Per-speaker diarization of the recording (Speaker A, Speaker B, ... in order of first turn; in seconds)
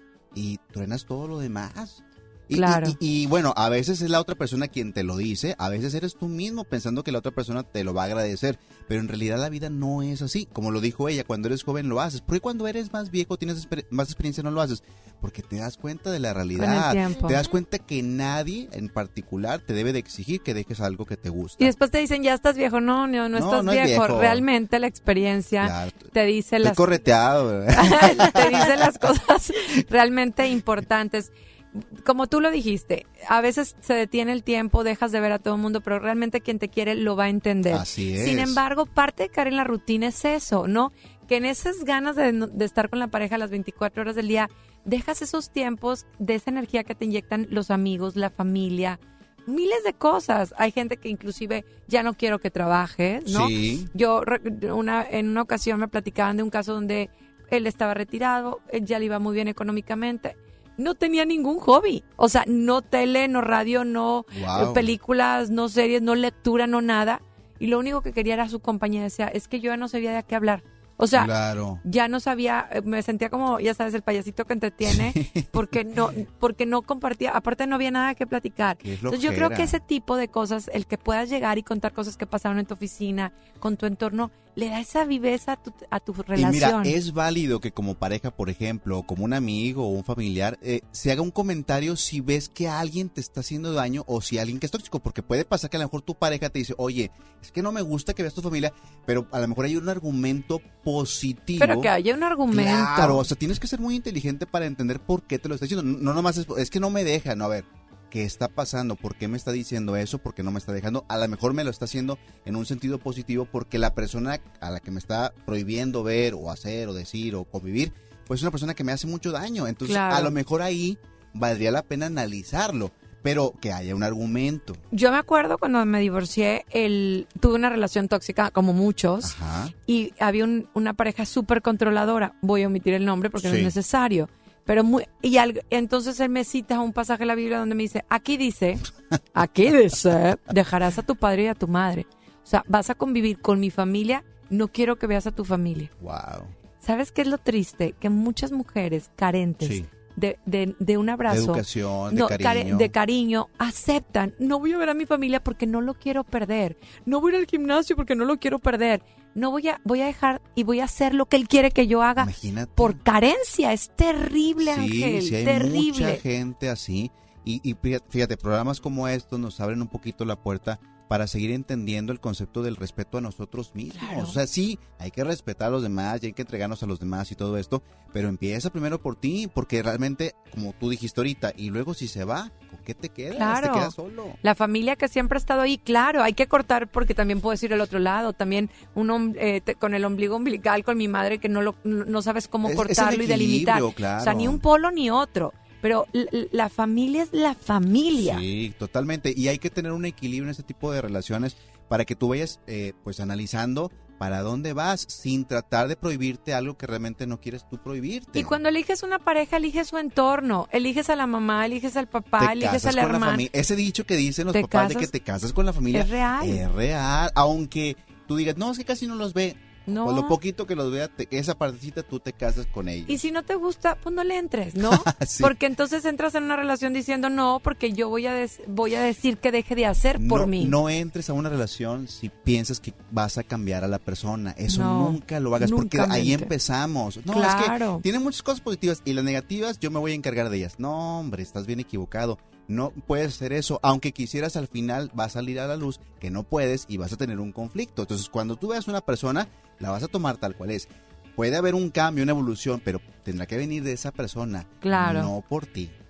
Speaker A: 0.3-21.7, 23.3-24.4, 25.6-26.1, 26.6-29.0, 37.7-38.6, 53.3-53.9, 64.3-64.9, 71.1-71.8, 74.8-75.5, 78.8-79.8, 86.3-101.9, 102.5-124.8, 129.2-129.7, 133.4-133.7, 146.0-146.5, 149.6-149.9, 151.3-152.9, 162.2-163.0, 164.6-184.4, 192.6-194.6, 198.2-208.6, 212.4-223.2, 224.8-225.5, 230.2-255.9
Speaker B: 2.5-3.0, 16.6-17.4, 21.6-26.8, 27.8-71.3, 71.8-86.9, 101.6-103.3, 119.8-120.3, 124.9-129.3, 129.8-138.8, 139.3-145.9, 146.8-166.2, 174.0-174.4, 183.3-198.4, 208.3-213.4, 214.5-215.1, 215.9-216.6, 219.9-220.4, 223.1-230.7, 234.7-236.5, 237.3-238.0, 254.8-255.3